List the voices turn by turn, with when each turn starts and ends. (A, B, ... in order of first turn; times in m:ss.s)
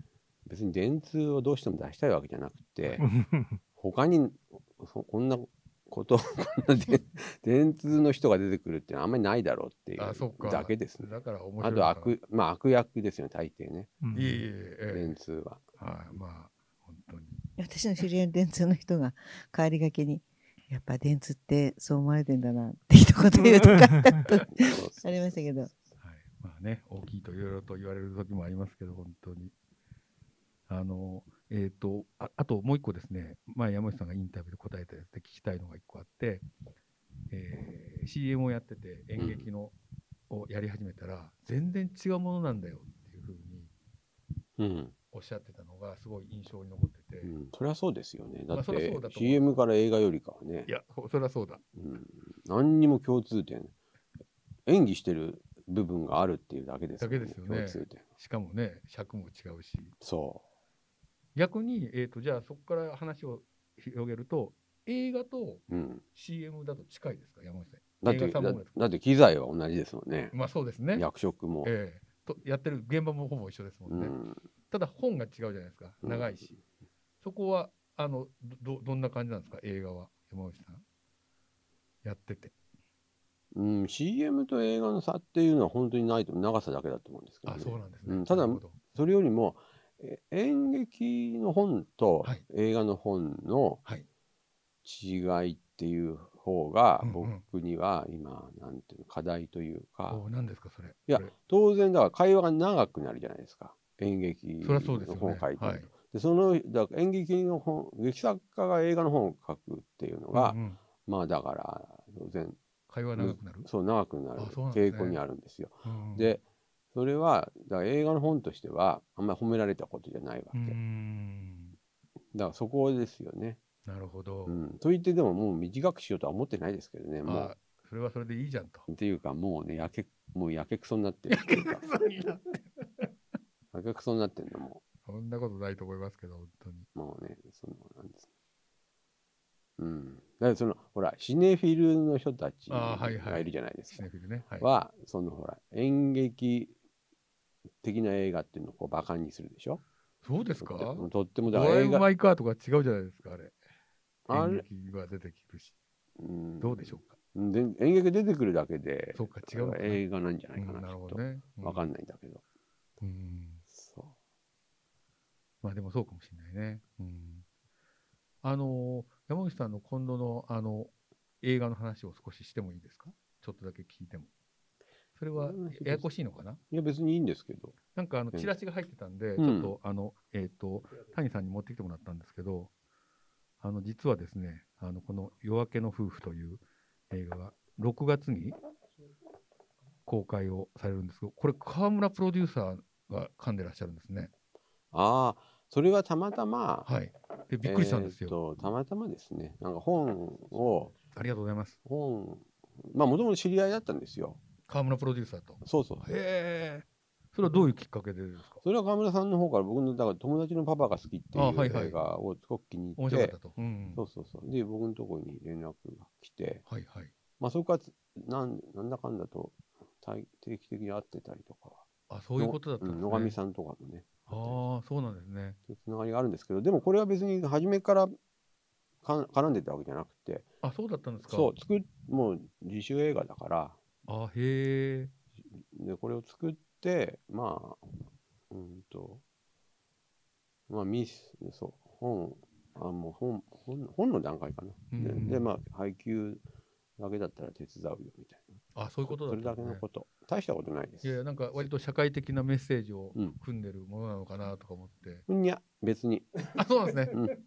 0:00.4-0:03.0 A
0:03.7-0:14.0 A
0:10.0-0:12.1 B
0:14.1-0:15.2 B
0:14.9-0:15.6 A
0:15.8-0:17.4 B
0:17.6-0:25.7 C
0:24.5-0:25.8 A
0:26.0-0:29.5 B
0:30.7-0:36.4 B
0:37.3-0:39.7 B
0:39.2-0:39.5 A
0:40.3-0:43.7 B
0:44.6-0:44.9 A
0:45.1-0:47.3 B
0:47.2-0:50.7 A
0:48.5-0:49.6 B
0:50.7-0:51.6 B
0:51.8-0:53.7 A
0:54.6-0:58.0 A
0:57.0-0:59.9 B
1:00.0-1:00.4 A
1:01.3-1:08.8 B
1:05.7-1:06.0 A
1:08.0-1:10.3 A
1:10.3-1:11.1 B
1:10.9-1:11.7 A
1:11.6-1:14.1 B
1:13.9-1:14.4 A
1:14.7-1:16.5 B
1:16.0-1:16.6 A
1:17.2-1:20.8 B
1:22.0-1:22.5 B
1:23.5-1:33.8 A
1:27.4-1:28.8 B
1:34.8-1:40.2 A
1:37.0-1:37.4 B
1:40.1-1:41.3 B
1:41.1-1:52.6 A
1:44.6-1:45.9 B
1:50.3-1:50.8 B
1:52.9-1:53.7 B
1:53.2-1:56.4 A
1:54.4-1:55.2 B
1:55.8-1:56.4 B
1:56.9-2:00.8 A
2:00.5-2:01.8 B
2:02.3-2:03.6 A
2:03.8-2:04.7 B
2:04.4-2:07.5 A
2:07.2-2:08.8 B
2:08.9-2:11.8 A
2:11.3-2:13.1 B
2:13.7-2:14.8 A
2:15.0-2:16.9 B
2:16.9-2:18.2 A
2:19.8-2:24.1 A
2:22.7-2:24.7 B
2:24.6-2:26.7 A
2:27.8-2:29.8 A
2:30.2-2:33.6 B
2:30.6-2:32.1 A
2:34.3-2:34.6 A
2:34.3-2:35.8 B
2:36.2-2:42.4 A
2:36.6-2:37.2 B
2:39.1-2:41.8 B
2:43.0-2:43.6 B
2:43.7-2:44.1 A
2:45.6-2:47.4 B
2:48.4-2:54.3 B
2:55.1-2:56.6 B
2:55.3-2:56.1 A
2:56.7-2:57.8 A
2:57.9-3:02.7 B
2:59.4-2:59.7 A
3:03.6-3:08.6 B
3:10.0-3:14.3 B
3:14.9-3:16.9 A
3:16.8-3:18.4 B
3:17.6-3:21.0 A
3:20.9-3:21.8 B
3:21.8-3:24.4 A
3:24.6-3:28.6 B
3:25.6-3:26.1 A
3:28.6-3:33.4 A
3:31.3-3:32.0 B
3:33.0-3:34.0 B
3:33.9-3:36.6 A
3:36.6-3:37.1 B
3:37.4-3:41.8 A
3:42.1-3:43.4 B
3:42.4-3:44.6 A
3:44.3-3:45.6 B
3:45.7-3:48.1 A
3:49.0-3:50.5 A
3:50.6-3:51.5 B
3:51.2-3:53.8 A
3:54.0-3:55.1 B
3:55.6-3:58.0 A
3:58.5-3:59.2 A
4:00.7-4:06.4 A
4:04.9-4:05.5 B
4:07.0-4:11.7 A
4:08.7-4:09.8 B
4:11.0-4:15.2 B
4:15.3-4:16.5 A
4:16.5-4:17.2 B